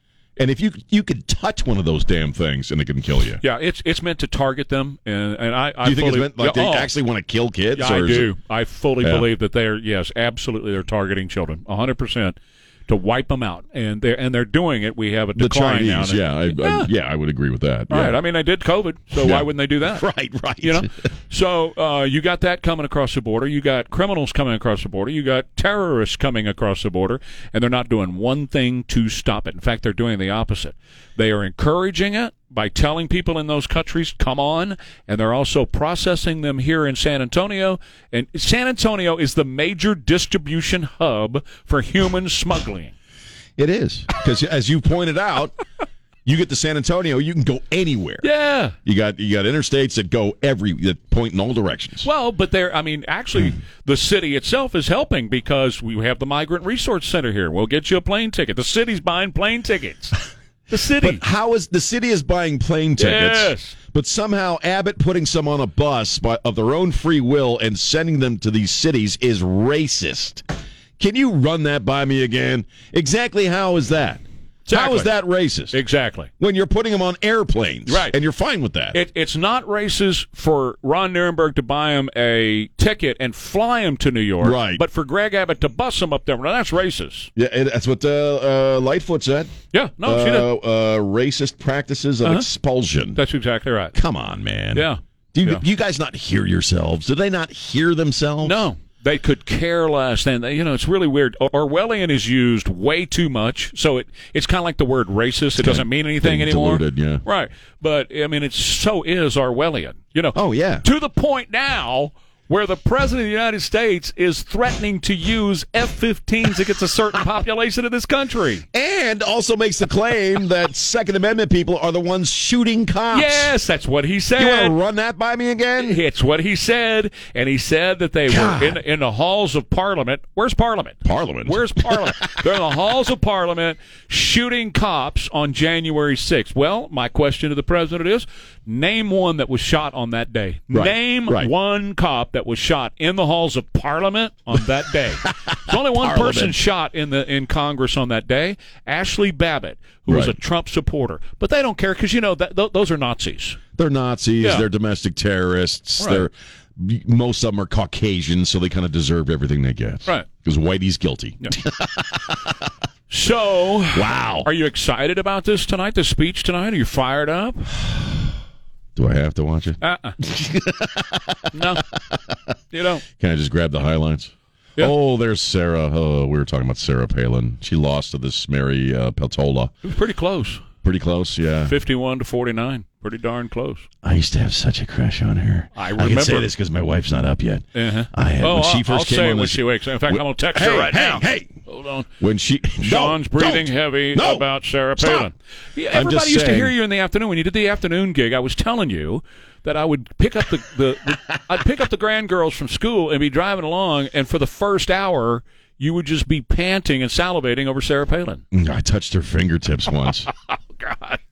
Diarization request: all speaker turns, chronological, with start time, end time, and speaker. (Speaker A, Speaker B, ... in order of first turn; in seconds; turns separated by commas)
Speaker A: 0.4-3.4, Speaker B: 3.4-6.9, Speaker A: 5.8-8.3, Speaker B: 7.7-12.3, Speaker A: 9.0-9.3, Speaker B: 12.9-16.9, Speaker A: 15.4-18.2, Speaker B: 17.9-20.1, Speaker A: 19.1-20.9, Speaker B: 20.6-42.9, Speaker A: 43.6-45.5, Speaker A: 46.2-48.3, Speaker B: 48.2-48.7, Speaker A: 48.8-52.1, Speaker B: 52.0-60.1, Speaker B: 60.7-61.2, Speaker A: 61.0-70.4, Speaker B: 63.0-63.7, Speaker A: 71.0-75.8, Speaker B: 74.7-75.1, Speaker B: 75.7-76.3, Speaker A: 76.4-79.0, Speaker B: 77.9-78.1, Speaker B: 78.9-87.3, Speaker A: 84.4-84.8, Speaker A: 87.3-93.2, Speaker B: 89.7-90.5, Speaker B: 93.2-93.9, Speaker A: 93.9-98.7, Speaker B: 94.7-95.6, Speaker B: 98.4-118.6, Speaker A: 105.6-107.2, Speaker A: 110.3-110.8, Speaker A: 118.7-123.5, Speaker B: 123.1-124.7, Speaker A: 124.3-126.0, Speaker B: 125.8-153.6, Speaker A: 128.3-128.8, Speaker A: 131.0-132.4, Speaker A: 140.7-141.5, Speaker A: 145.5-146.6, Speaker A: 150.1-150.3, Speaker A: 153.8-162.5, Speaker B: 156.0-156.2, Speaker B: 163.1-167.7, Speaker A: 163.9-164.5, Speaker A: 168.9-171.6, Speaker B: 169.8-170.2, Speaker B: 171.5-171.8, Speaker B: 172.7-173.0, Speaker A: 173.2-179.7, Speaker B: 179.8-180.7, Speaker A: 180.8-181.8, Speaker B: 181.7-183.9, Speaker A: 184.0-191.6, Speaker B: 185.8-186.5, Speaker B: 187.7-192.1, Speaker A: 192.2-194.4, Speaker B: 192.8-208.4, Speaker A: 195.0-195.3, Speaker A: 195.9-196.7, Speaker A: 208.5-210.3, Speaker B: 210.8-211.2